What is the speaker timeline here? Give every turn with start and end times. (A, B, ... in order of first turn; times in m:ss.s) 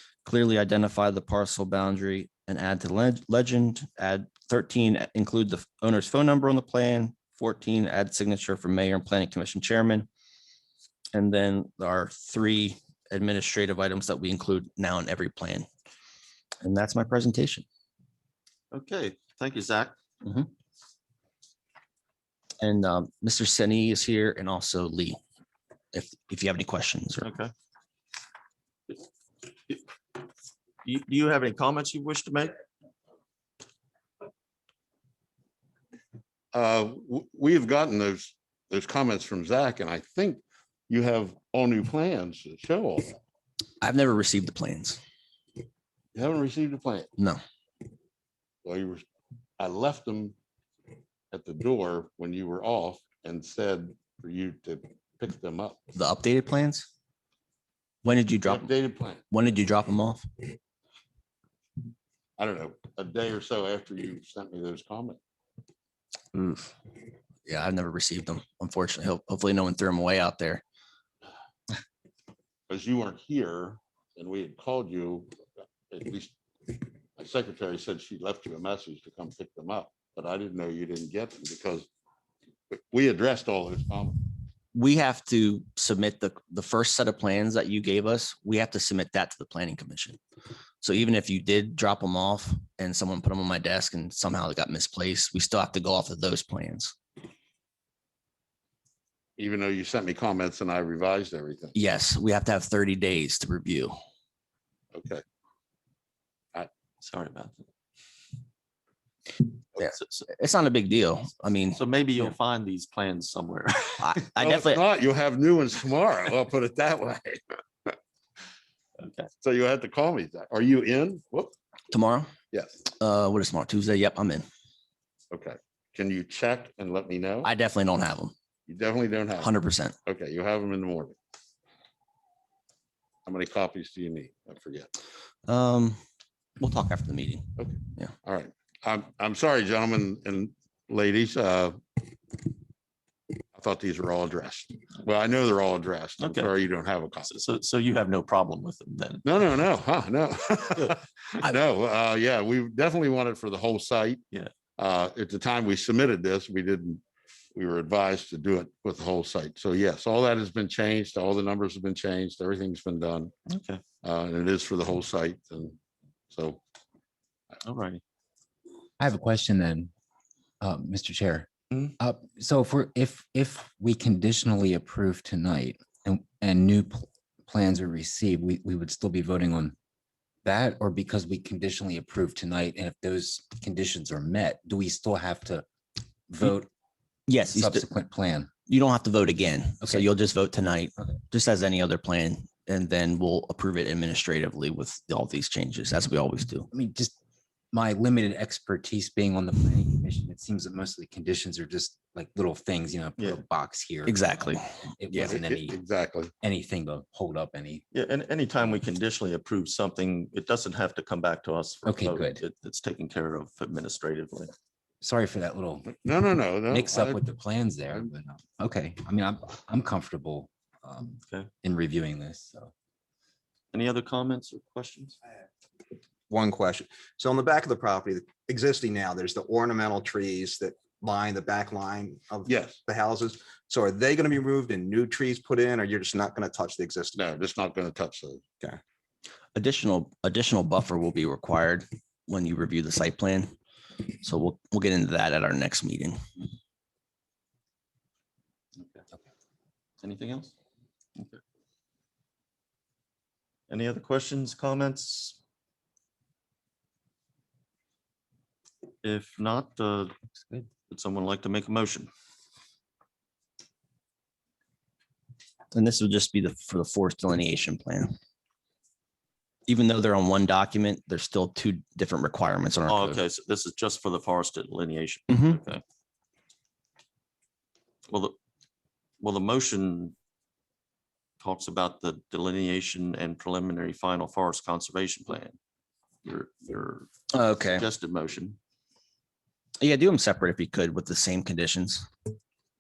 0:00.2-0:10.1 A
0:11.1-0:15.7 A
0:16.6-0:17.6 A
0:18.7-0:20.0 B
0:22.6-0:25.2 A
0:25.9-0:27.3 A
0:27.2-0:27.5 B
0:30.8-0:32.6 B
0:36.5-0:43.2 C
0:43.8-0:45.0 A
0:46.2-0:47.1 C
0:48.6-0:49.0 C
0:49.6-0:50.4 C
0:51.3-0:55.8 C
0:56.0-0:56.9 A
0:58.0-0:58.7 A
0:58.4-0:59.2 C
0:59.3-1:00.3 A
1:02.4-1:05.2 C
1:07.5-1:10.6 A
1:12.7-1:15.3 C
1:15.9-1:21.9 C
1:22.7-1:24.3 C
1:24.8-1:30.2 A
1:30.8-1:37.0 A
1:39.4-1:41.8 C
1:41.7-1:44.0 A
1:44.9-1:45.2 C
1:47.0-1:47.7 B
1:49.8-1:50.3 B
1:49.8-1:51.8 A
1:51.8-1:54.2 B
1:54.0-1:54.8 A
1:54.4-1:58.0 C
1:59.0-1:59.3 B
1:59.4-2:01.5 C
2:01.9-2:02.3 A
2:02.5-2:02.8 C
2:03.0-2:04.4 A
2:05.3-2:07.5 C
2:07.4-2:08.3 A
2:08.7-2:09.5 C
2:09.4-2:10.0 A
2:10.1-2:11.2 C
2:13.3-2:14.9 C
2:15.5-2:16.0 A
2:16.6-2:18.1 A
2:17.6-2:22.4 C
2:23.5-2:27.3 C
2:26.2-2:26.5 B
2:27.2-2:29.3 B
2:29.2-2:34.2 C
2:34.8-2:37.0 C
2:37.6-2:43.3 C
2:43.5-2:43.8 B
2:44.0-2:45.8 C
2:46.3-2:46.6 C
2:47.6-2:48.0 B
2:49.0-2:49.9 D
2:50.6-2:59.8 D
3:00.4-3:05.7 D
3:06.3-3:06.7 D
3:07.3-3:07.9 A
3:07.5-3:08.5 D
3:08.7-3:16.7 A
3:09.8-3:10.1 D
3:16.7-3:17.2 D
3:17.7-3:24.3 D
3:24.1-3:24.6 A
3:25.0-3:25.8 D
3:25.1-3:26.3 C
3:26.4-3:27.8 D
3:27.9-3:34.5 B
3:31.8-3:32.4 D
3:35.0-3:36.0 D
3:35.9-3:37.2 C
3:36.7-3:42.7 D
3:43.7-3:45.2 B
3:46.3-3:57.2 E
3:52.5-3:52.8 C
3:57.2-3:58.5 C
3:59.6-4:03.5 A
4:04.2-4:06.2 A
4:10.0-4:10.5 B
4:13.7-4:15.4 B
4:19.0-4:20.1 B
4:20.9-4:22.1 B
4:25.7-4:28.2 A
4:29.7-4:33.2 A
4:32.9-4:35.8 B
4:35.3-4:35.6 A
4:38.1-4:38.4 B
4:39.2-4:40.2 B
4:41.4-4:45.6 B
4:46.2-4:47.1 B
4:47.3-4:47.8 A
4:47.7-4:48.6 B
4:49.8-4:52.1 A